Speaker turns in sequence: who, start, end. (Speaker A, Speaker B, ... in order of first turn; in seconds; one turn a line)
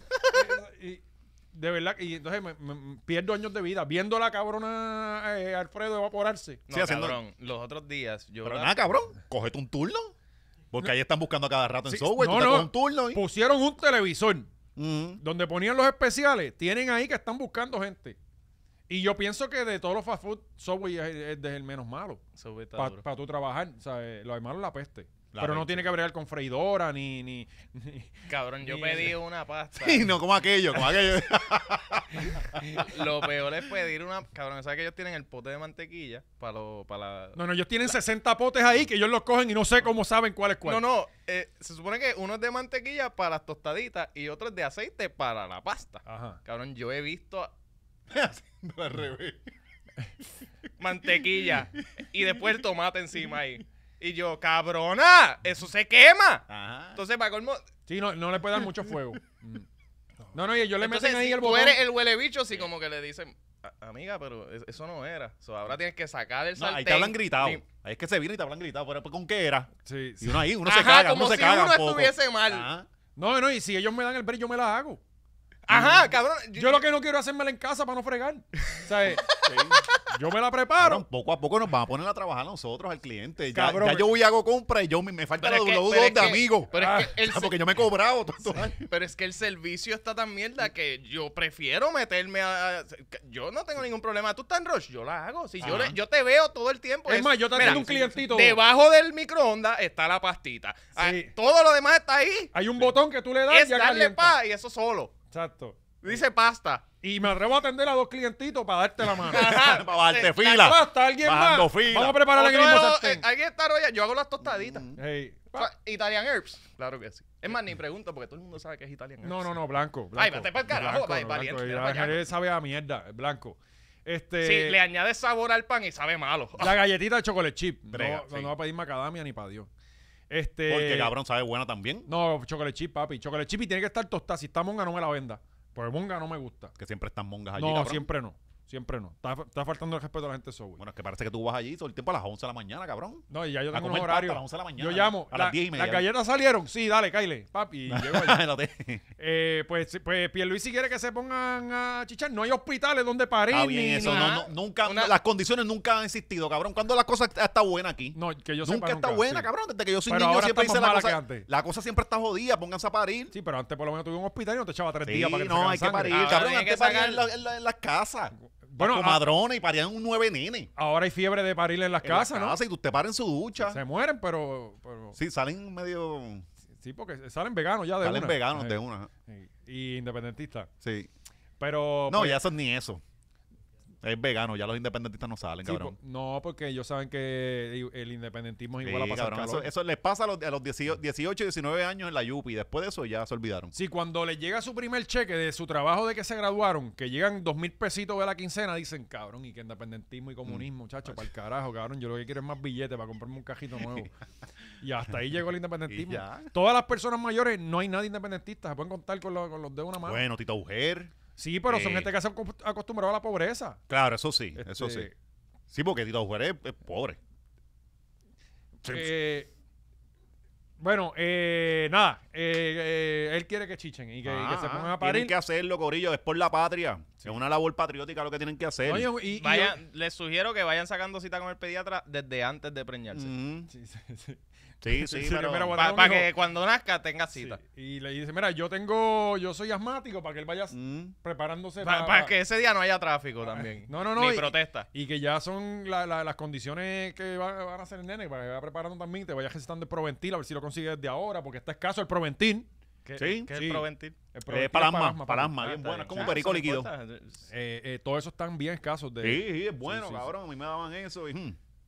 Speaker A: 0.3-6.6
Speaker B: 6.7-8.7
Speaker C: 6.7-7.2
Speaker C: 8.4-10.1
Speaker C: 10.7-13.2
Speaker A: 11.9-14.5
Speaker C: 14.8-15.2
Speaker A: 15.2-18.2
Speaker A: 18.9-22.2
Speaker B: 22.4-23.0
Speaker A: 22.8-29.1
Speaker C: 25.3-25.9
Speaker B: 28.3-30.1
Speaker C: 29.8-33.1
Speaker B: 32.7-37.4
Speaker A: 37.3-40.8
Speaker B: 40.6-47.5
Speaker A: 46.0-46.4
Speaker C: 48.1-49.5
Speaker B: 50.8-57.6
Speaker C: 56.5-57.0
Speaker A: 57.9-59.7
Speaker A: 60.3-61.8
Speaker B: 60.8-67.6
Speaker C: 66.5-69.7
Speaker A: 69.8-70.4
Speaker C: 70.2-72.9
Speaker B: 70.6-72.7
Speaker A: 73.2-75.0
Speaker B: 75.7-76.8
Speaker C: 75.7-76.0
Speaker A: 76.5-79.2
Speaker B: 79.2-80.0
Speaker C: 79.2-79.8
Speaker A: 80.1-81.0
Speaker C: 80.8-88.8
Speaker A: 83.5-84.1
Speaker B: 85.4-87.5
Speaker A: 86.7-87.1
Speaker B: 88.5-102.9
Speaker C: 95.6-96.0
Speaker A: 97.1-98.6
Speaker A: 101.0-101.3
Speaker A: 102.5-104.3
Speaker B: 103.5-105.1
Speaker A: 105.3-105.9
Speaker B: 106.0-106.8
Speaker A: 107.0-109.6
Speaker B: 109.2-110.7
Speaker C: 109.3-112.2
Speaker A: 110.6-113.2
Speaker B: 112.3-114.9
Speaker C: 114.4-115.0
Speaker A: 115.0-115.7
Speaker B: 115.5-119.5
Speaker A: 119.2-124.8
Speaker B: 120.2-122.3
Speaker B: 124.4-126.8
Speaker A: 126.6-129.7
Speaker C: 127.9-128.5
Speaker A: 130.3-131.1
Speaker C: 130.7-132.1
Speaker A: 132.1-136.7
Speaker C: 136.8-138.1
Speaker A: 137.5-140.8
Speaker C: 140.8-146.1
Speaker A: 143.3-148.4
Speaker C: 147.9-149.0
Speaker A: 149.2-154.3
Speaker C: 153.5-163.3
Speaker B: 153.9-155.1
Speaker A: 158.1-159.5
Speaker A: 160.1-161.4
Speaker A: 163.3-166.4
Speaker C: 165.1-170.7
Speaker B: 166.1-167.3
Speaker A: 168.7-169.3
Speaker A: 170.8-172.6
Speaker C: 172.0-173.8
Speaker A: 173.6-175.2
Speaker C: 175.1-176.4
Speaker A: 176.8-180.7
Speaker C: 178.0-179.1
Speaker C: 180.8-181.1
Speaker A: 181.6-182.4
Speaker C: 182.1-183.0
Speaker C: 184.0-185.9
Speaker A: 185.6-189.7
Speaker C: 188.8-193.7
Speaker A: 193.7-204.1
Speaker C: 200.4-201.2
Speaker A: 204.8-210.2
Speaker C: 205.9-206.5
Speaker C: 210.0-211.1
Speaker A: 211.4-213.8
Speaker C: 211.7-212.1
Speaker C: 213.9-215.1
Speaker A: 214.6-215.1
Speaker C: 215.7-217.2
Speaker A: 218.8-219.5
Speaker C: 218.8-219.1
Speaker A: 220.8-225.3
Speaker C: 224.2-229.1
Speaker A: 228.8-229.8
Speaker B: 229.3-233.3
Speaker C: 233.1-233.7
Speaker A: 233.7-236.3
Speaker C: 234.8-235.8
Speaker B: 235.7-237.6
Speaker A: 237.3-242.3
Speaker C: 240.7-241.1
Speaker B: 241.8-244.9
Speaker A: 243.6-252.7
Speaker B: 253.1-254.2
Speaker C: 253.2-253.5
Speaker A: 253.5-256.4
Speaker C: 254.5-256.9
Speaker B: 256.1-257.5
Speaker A: 257.5-260.3
Speaker C: 259.2-261.6